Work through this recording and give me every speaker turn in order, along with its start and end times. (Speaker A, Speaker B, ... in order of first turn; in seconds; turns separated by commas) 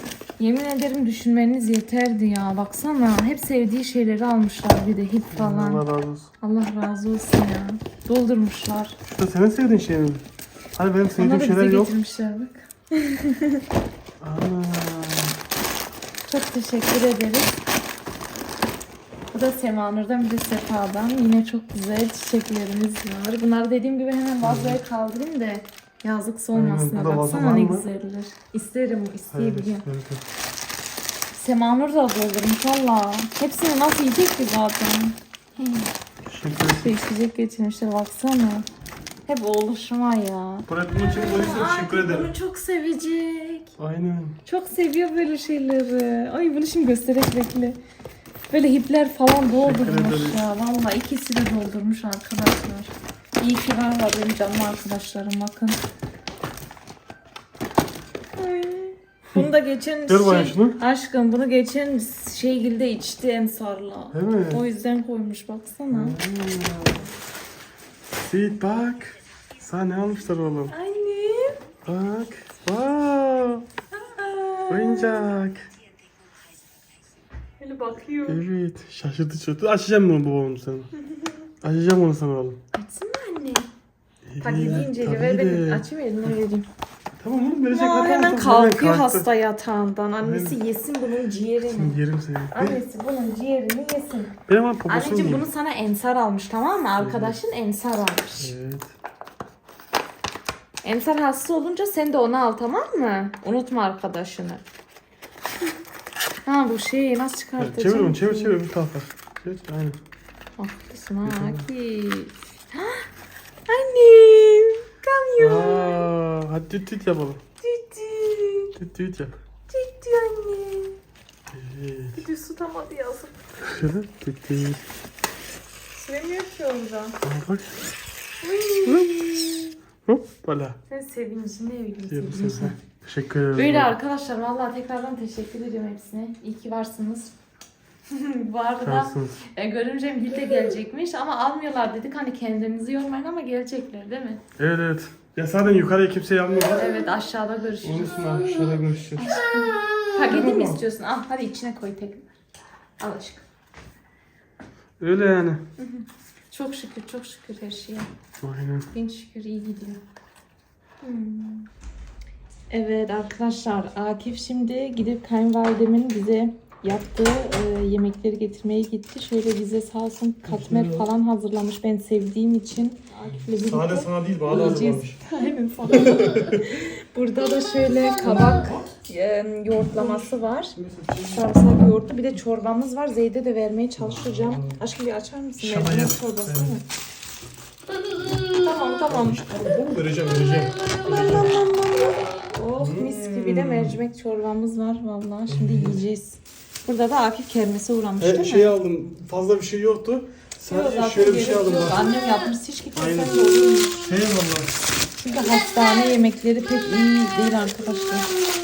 Speaker A: 0.4-5.8, Speaker B: 5.3-6.3, Speaker A: 6.4-9.0, Speaker B: 9.1-10.2, Speaker B: 10.8-11.9, Speaker A: 11.2-13.6, Speaker B: 14.2-15.4, Speaker A: 16.3-17.6, Speaker A: 19.3-29.9, Speaker B: 24.4-24.8, Speaker B: 26.5-27.9, Speaker B: 29.3-30.2, Speaker A: 31.3-35.9, Speaker B: 36.2-36.9, Speaker A: 36.8-38.7, Speaker A: 39.3-43.8, Speaker B: 40.7-42.3, Speaker B: 43.8-44.4, Speaker A: 44.5-47.8, Speaker A: 48.5-55.8, Speaker B: 49.6-50.4, Speaker A: 58.4-66.2, Speaker B: 60.1-60.8, Speaker B: 64.1-64.6, Speaker B: 65.9-67.1, Speaker B: 68.2-70.7, Speaker A: 70.7-71.6, Speaker B: 71.8-73.6, Speaker A: 73.9-75.2, Speaker B: 74.7-75.7, Speaker A: 77.6-78.5, Speaker B: 78.2-80.9, Speaker A: 81.0-81.5, Speaker B: 81.6-82.6, Speaker A: 82.7-83.7, Speaker B: 84.3-85.8, Speaker A: 84.4-86.7, Speaker B: 87.2-89.3, Speaker A: 87.7-92.0, Speaker B: 90.2-90.6, Speaker B: 91.7-92.8, Speaker A: 92.5-98.5, Speaker B: 94.5-95.5, Speaker B: 97.0-97.4, Speaker B: 98.4-98.9, Speaker A: 100.8-104.6, Speaker A: 106.5-108.6, Speaker B: 107.6-110.0, Speaker A: 110.6-113.1, Speaker B: 111.2-111.7, Speaker A: 113.7-116.1, Speaker B: 115.4-117.4, Speaker A: 117.6-118.8, Speaker B: 118.8-119.3, Speaker A: 119.7-121.0, Speaker B: 121.5-122.2, Speaker A: 122.1-123.8, Speaker B: 123.6-124.8, Speaker A: 125.9-127.2, Speaker B: 127.2-127.8, Speaker A: 128.4-129.8, Speaker B: 128.8-130.8, Speaker A: 130.9-132.8, Speaker B: 132.1-134.0, Speaker A: 133.5-137.3, Speaker A: 138.1-144.4, Speaker B: 138.8-139.4, Speaker B: 144.6-146.9, Speaker A: 146.8-148.3, Speaker B: 147.8-149.3, Speaker A: 149.2-152.3, Speaker B: 150.3-150.8, Speaker A: 153.0-153.5, Speaker B: 155.0-155.6, Speaker A: 155.8-158.1, Speaker B: 158.4-158.9, Speaker A: 158.9-160.0, Speaker A: 161.0-161.7, Speaker A: 162.7-180.8, Speaker B: 170.4-171.1, Speaker B: 173.3-175.2, Speaker B: 176.1-176.6, Speaker B: 178.2-178.9, Speaker B: 179.8-181.5, Speaker A: 181.3-186.8, Speaker B: 184.0-184.8, Speaker B: 185.6-186.8, Speaker A: 188.5-189.4, Speaker B: 189.1-191.7, Speaker A: 191.1-198.8, Speaker B: 192.8-194.0, Speaker B: 195.5-196.0, Speaker B: 198.2-202.1, Speaker A: 200.6-204.0, Speaker B: 203.0-204.8, Speaker A: 205.1-208.3